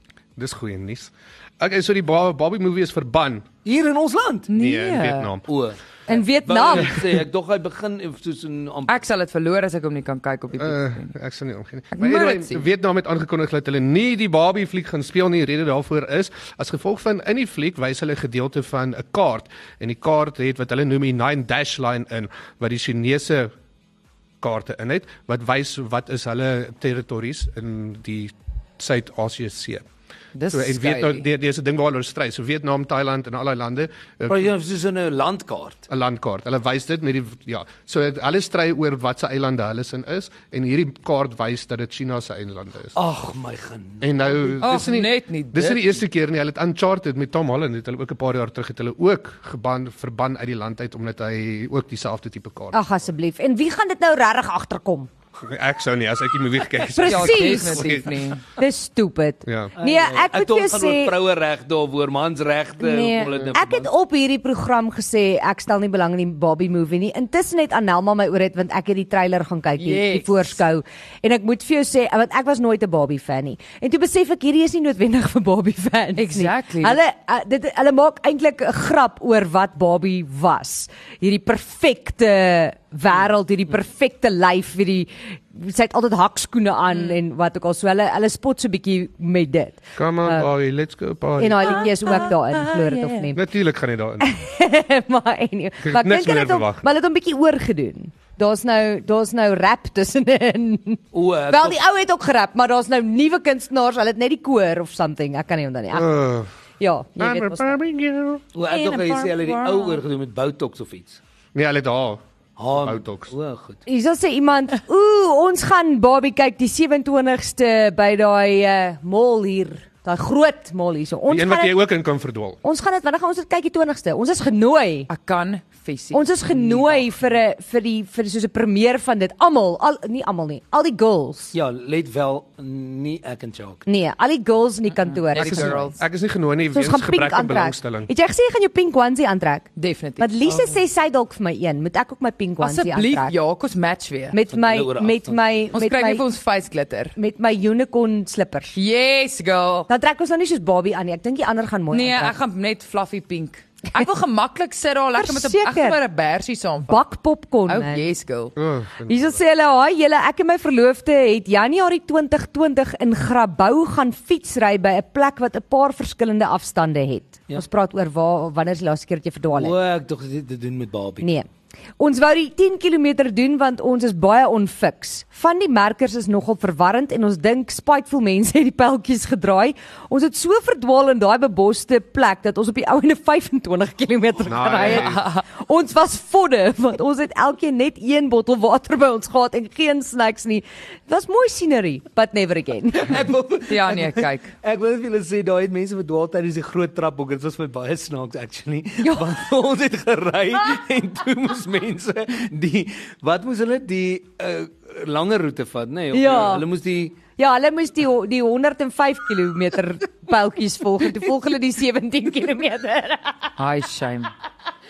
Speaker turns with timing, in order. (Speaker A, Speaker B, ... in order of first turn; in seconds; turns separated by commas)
Speaker A: 0.4-3.5, Speaker B: 3.6-4.5, Speaker C: 4.5-5.3, Speaker A: 4.5-5.4, Speaker B: 5.5-9.0, Speaker D: 6.1-7.0, Speaker C: 8.9-11.1, Speaker A: 10.6-23.5, Speaker C: 11.9-12.7, Speaker A: 24.4-29.8, Speaker C: 30.3-31.3, Speaker A: 30.5-34.5, Speaker B: 34.3-35.9, Speaker A: 35.9-43.0, Speaker B: 43.0-44.9, Speaker A: 44.0-52.8, Speaker C: 44.6-46.0, Speaker D: 52.7-55.1, Speaker A: 55.5-58.2, Speaker D: 57.0-58.0, Speaker C: 57.0-58.4, Speaker D: 58.6-61.1, Speaker A: 59.5-59.7, Speaker B: 59.8-63.9, Speaker D: 62.8-90.5, Speaker C: 69.8-70.5, Speaker C: 76.2-77.0, Speaker A: 90.0-91.8, Speaker D: 91.4-93.4, Speaker C: 91.7-93.3, Speaker A: 93.3-94.3, Speaker D: 94.2-106.2, Speaker A: 95.8-96.8, Speaker B: 101.1-101.8, Speaker A: 105.9-106.5, Speaker D: 106.8-107.8, Speaker A: 107.2-108.4, Speaker B: 108.5-111.2, Speaker D: 108.7-110.0, Speaker A: 111.5-112.2, Speaker B: 112.6-113.8, Speaker A: 112.7-113.3, Speaker D: 113.9-121.8, Speaker A: 121.3-122.6, Speaker D: 122.6-125.1, Speaker C: 125.1-127.1, Speaker D: 126.1-131.5, Speaker B: 131.5-133.8, Speaker D: 133.9-135.9, Speaker C: 135.0-136.0, Speaker A: 135.4-138.1, Speaker D: 136.7-143.3, Speaker C: 139.8-140.3, Speaker C: 142.6-144.4, Speaker D: 144.3-146.2, Speaker B: 144.5-145.4, Speaker C: 145.7-147.2, Speaker D: 147.2-148.8, Speaker C: 148.8-149.9, Speaker D: 149.9-152.4, Speaker C: 151.9-157.0, Speaker D: 155.2-156.0, Speaker D: 156.8-158.0, Speaker C: 157.7-158.5, Speaker A: 158.6-159.4, Speaker D: 159.1-169.8, Speaker B: 169.5-171.3, Speaker D: 171.2-171.5, Speaker D: 172.0-193.2, Speaker A: 184.5-185.2, Speaker C: 184.8-185.4, Speaker B: 193.0-207.2, Speaker C: 193.7-194.6, Speaker D: 206.1-206.7, Speaker D: 207.4-213.5, Speaker C: 213.6-214.3